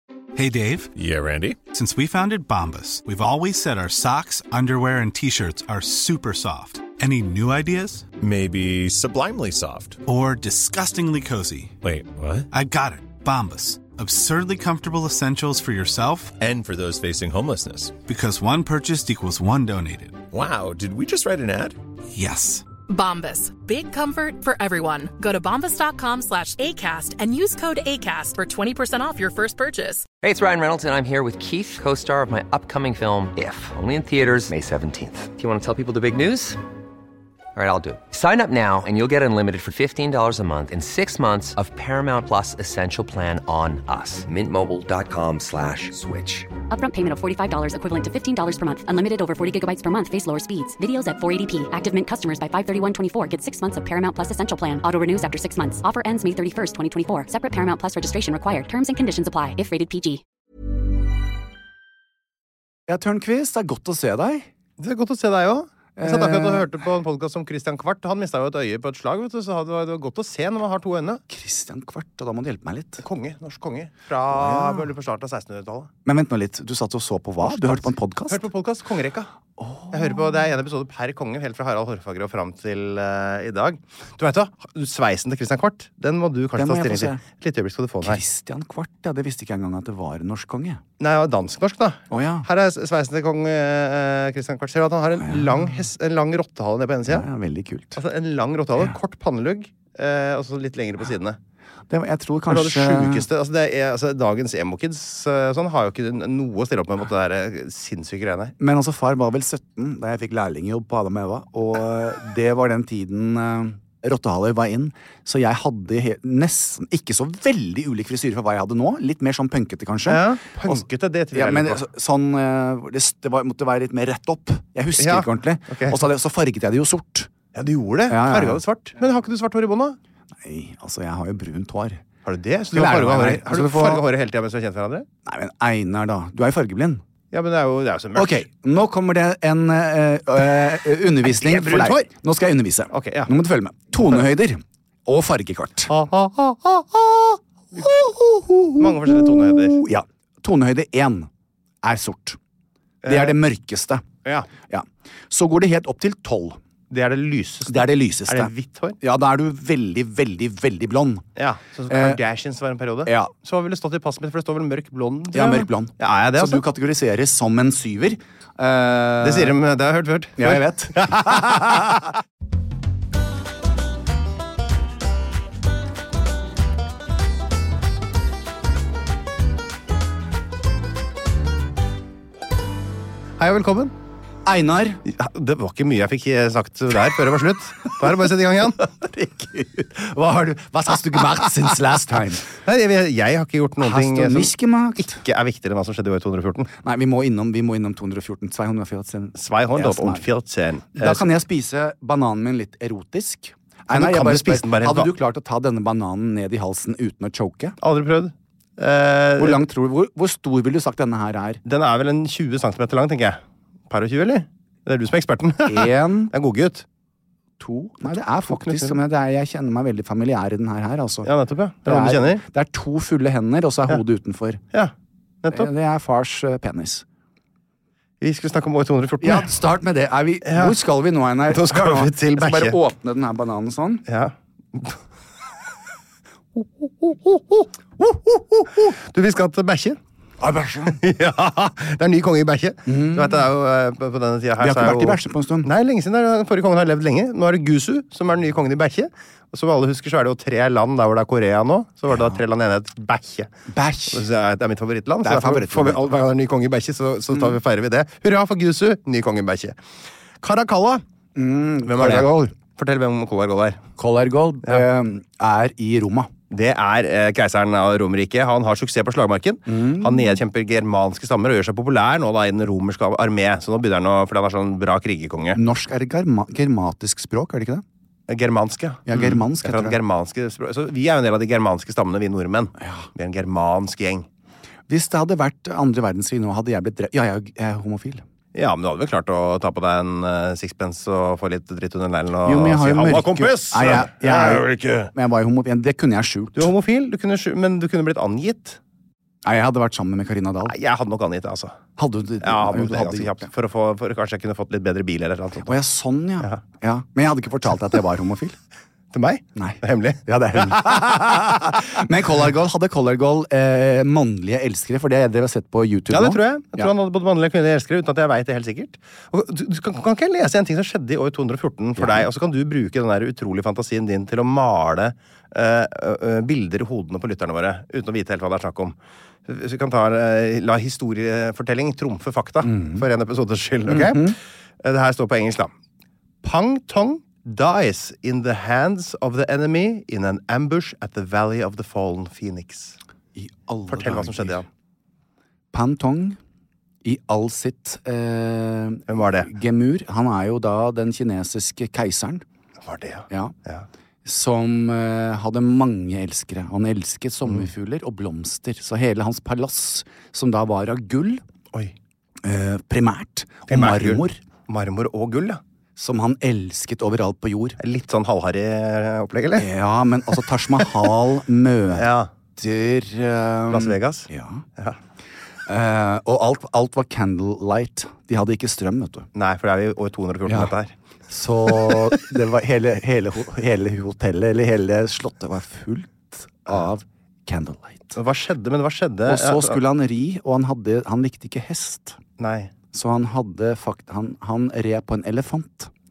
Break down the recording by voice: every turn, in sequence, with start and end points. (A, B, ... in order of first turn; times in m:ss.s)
0:00.3-0:00.9 A
0:01.0-0:01.6 B
0:01.7-0:08.1 A
0:08.2-0:10.0 B
0:10.0-0:11.8 A
0:11.8-0:12.5 B
0:12.5-0:16.4 A
0:16.4-0:18.0 B
0:18.0-0:20.2 A
0:20.3-0:21.8 B
0:22.1-0:22.7 A
0:22.9-0:30.0 C
0:30.2-0:36.6 D
0:37.5-0:46.5 D
0:46.7-1:00.2 E
1:02.9-1:04.5 F
1:04.8-1:11.2 G
1:06.0-1:06.7 F
1:11.3-1:13.0 F
1:13.0-1:15.9 G
1:14.3-1:14.9 F
1:16.0-1:18.4 F
1:17.4-1:19.3 G
1:19.6-1:20.2 F
1:19.9-1:28.2 G
1:26.6-1:27.2 F
1:28.0-1:30.8 F
1:31.0-1:37.3 G
1:32.1-1:32.4 F
1:37.1-1:38.0 F
1:37.9-1:41.4 G
1:41.9-1:43.3 F
1:42.5-1:48.5 G
1:48.6-2:07.3 F
2:00.1-2:01.8 G
2:05.0-2:06.0 G
2:07.5-2:10.0 G
2:08.1-2:08.6 F
2:10.4-2:12.0 F
2:12.2-2:15.1 G
2:12.7-2:14.0 F
2:15.2-2:17.0 F
2:17.3-2:18.4 G
2:18.2-2:25.9 F
2:21.2-2:22.1 G
2:22.9-2:23.3 G
2:25.9-2:27.9 G
2:27.8-2:31.3 F
2:28.8-2:29.8 G
2:31.8-2:32.4 F
2:33.0-2:33.3 G
2:33.0-2:34.0 F
2:34.7-2:36.6 F
2:36.9-2:39.0 G
2:37.6-2:41.2 F
2:41.4-2:46.6 G
2:41.9-2:42.2 F
2:43.0-2:43.3 F
2:45.3-2:49.6 F
2:49.2-2:52.0 G
2:50.4-2:51.8 F
3:03.4-3:03.9 G
3:04.4-3:05.0 F
3:05.0-3:08.8 G
3:09.0-3:12.5 F
3:12.5-3:16.7 G
3:13.8-3:15.2 F
3:16.8-3:20.2 F
3:19.4-3:21.3 G
3:20.9-3:27.8 F
3:23.9-3:25.1 G
3:27.8-3:29.6 G
3:29.4-3:31.6 F
3:31.6-3:36.8 G
3:35.6-3:36.3 F
3:37.6-3:41.3 F
3:38.4-3:39.0 G
3:41.2-3:42.4 G
3:41.8-3:44.6 F
3:44.7-3:45.7 G
3:45.5-3:47.0 F
3:48.2-3:49.5 G
3:49.2-3:54.0 F
3:50.4-3:50.8 G
3:51.5-3:52.8 G
3:54.1-3:55.0 G
3:56.6-4:00.0 G
4:00.4-4:01.0 F
4:00.8-4:13.5 G
4:02.9-4:03.4 F
4:04.6-4:05.7 F
4:13.7-4:14.2 F
4:14.1-4:19.8 G
4:15.2-4:16.0 F
4:20.4-4:21.0 G
4:21.3-4:22.5 F
4:21.8-4:23.8 G
4:24.0-4:26.3 F
4:26.5-4:35.6 G
4:29.7-4:30.4 F
4:35.5-4:37.8 F
4:38.3-4:44.3 G
4:39.1-4:40.0 F
4:42.8-4:43.1 F
4:44.9-4:48.2 F
4:48.5-4:55.1 G
4:52.4-4:56.7 F
4:56.6-4:58.8 G
4:59.4-5:00.7 F
5:00.6-5:01.8 G
5:02.0-5:03.5 F
5:02.4-5:05.7 G
5:05.6-5:08.6 F
5:09.1-5:11.7 G
5:09.6-5:16.9 F
5:16.1-5:35.7 G
5:22.0-5:22.3 F
5:32.6-5:33.0 F
5:33.9-5:34.4 F
5:36.4-5:43.0 G
5:43.3-5:44.6 F
5:43.9-5:44.6 G
5:45.7-5:46.4 F
5:47.0-5:52.4 F
5:49.1-5:49.5 G
5:52.8-5:53.8 G
5:54.2-6:01.4 F
6:02.4-6:04.4 F
6:03.7-6:05.6 G
6:06.0-6:07.8 F
6:07.8-6:09.7 G
6:09.6-6:14.6 F
6:11.9-6:12.3 G
6:13.7-6:15.0 G
6:15.7-6:19.3 F
6:19.3-6:20.9 G
6:20.4-6:20.7 F
6:21.3-6:28.2 F
6:21.7-6:22.1 G
6:28.1-6:29.8 G
6:29.2-6:32.2 F
6:32.4-6:32.7 G
6:32.9-6:35.9 F